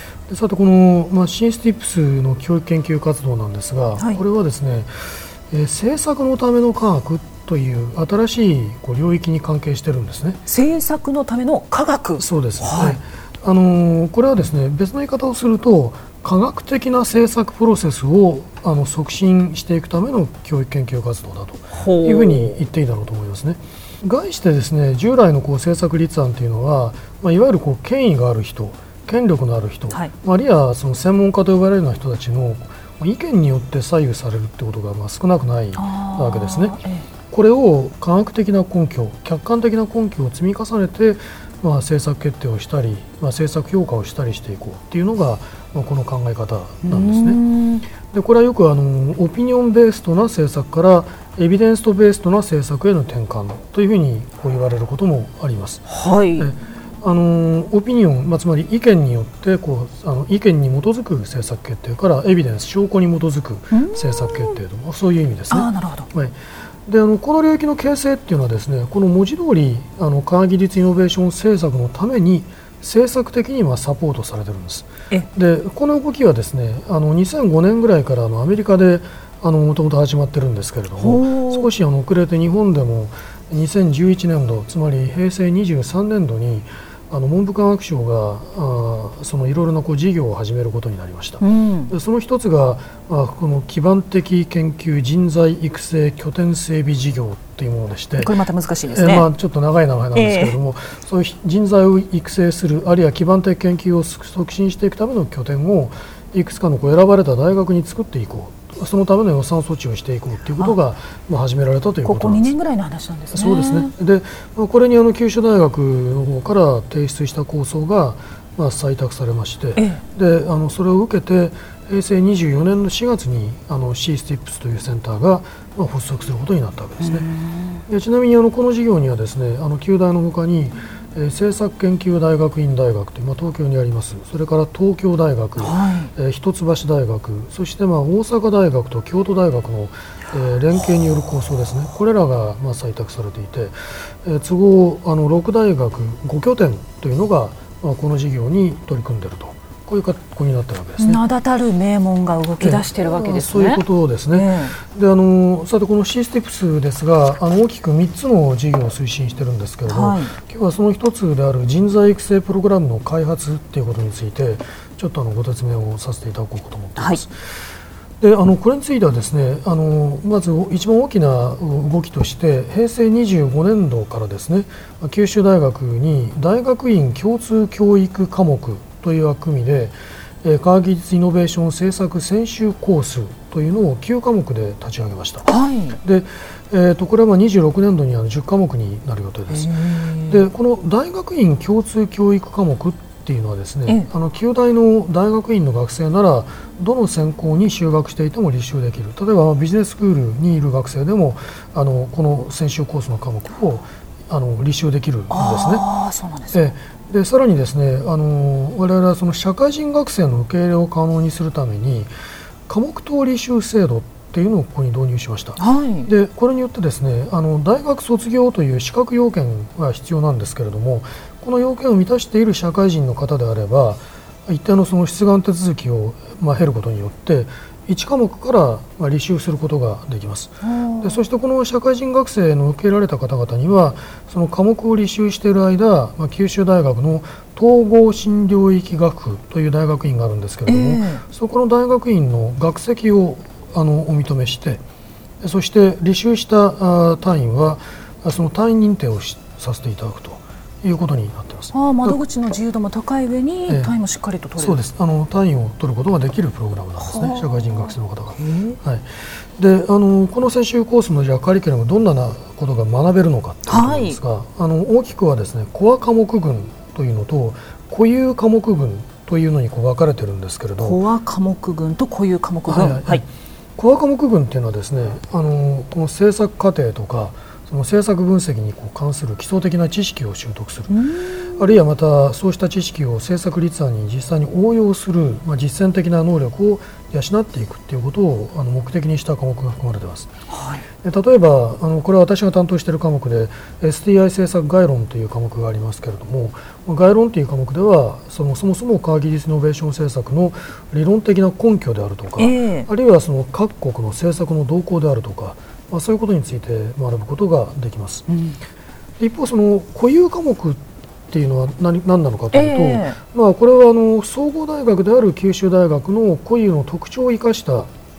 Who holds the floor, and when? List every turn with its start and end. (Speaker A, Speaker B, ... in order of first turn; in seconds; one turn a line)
Speaker A: 0.3-10.4
Speaker B: 10.5-13.0
Speaker A: 12.2-36.8
Speaker B: 21.7-22.6
Speaker B: 35.8-37.1
Speaker A: 37.3-47.4
Speaker B: 46.9-47.9
Speaker A: 48.0-55.8
Speaker B: 55.9-56.5
Speaker A: 56.4-66.3
Speaker B: 63.7-64.6
Speaker B: 65.5-66.1
Speaker A: 66.9-98.3
Speaker B: 81.0-81.7
Speaker B: 91.4-91.9
Speaker B: 98.2-99.3
Speaker A: 98.9-112.5
Speaker B: 100.2-100.5
Speaker B: 112.0-113.9
Speaker A: 113.3-127.3
Speaker B: 119.8-120.0
Speaker B: 127.0-127.8
Speaker A: 127.9-151.2
Speaker B: 135.6-136.1
Speaker B: 151.0-154.8
Speaker A: 152.6-167.3
Speaker B: 159.9-160.3
Speaker B: 167.0-167.2
Speaker A: 168.2-185.5
Speaker B: 185.4-186.0
Speaker A: 186.0-205.9
Speaker B: 189.5-190.4
Speaker B: 205.3-206.7
Speaker A: 206.5-212.1
Speaker A: 212.7-244.8
Speaker B: 215.6-216.1
Speaker B: 230.6-231.2
Speaker B: 240.7-241.2
Speaker A: 245.4-252.2
Speaker B: 251.7-254.8
Speaker A: 254.6-271.0
Speaker B: 257.0-258.8
Speaker B: 263.7-264.2
Speaker B: 270.8-273.2
Speaker A: 272.7-281.0
Speaker B: 280.9-281.7
Speaker A: 281.5-290.3
Speaker B: 290.5-290.8
Speaker A: 291.0-308.2
Speaker B: 302.4-302.9
Speaker B: 308.3-308.6
Speaker A: 309.2-317.9
Speaker B: 312.5-313.2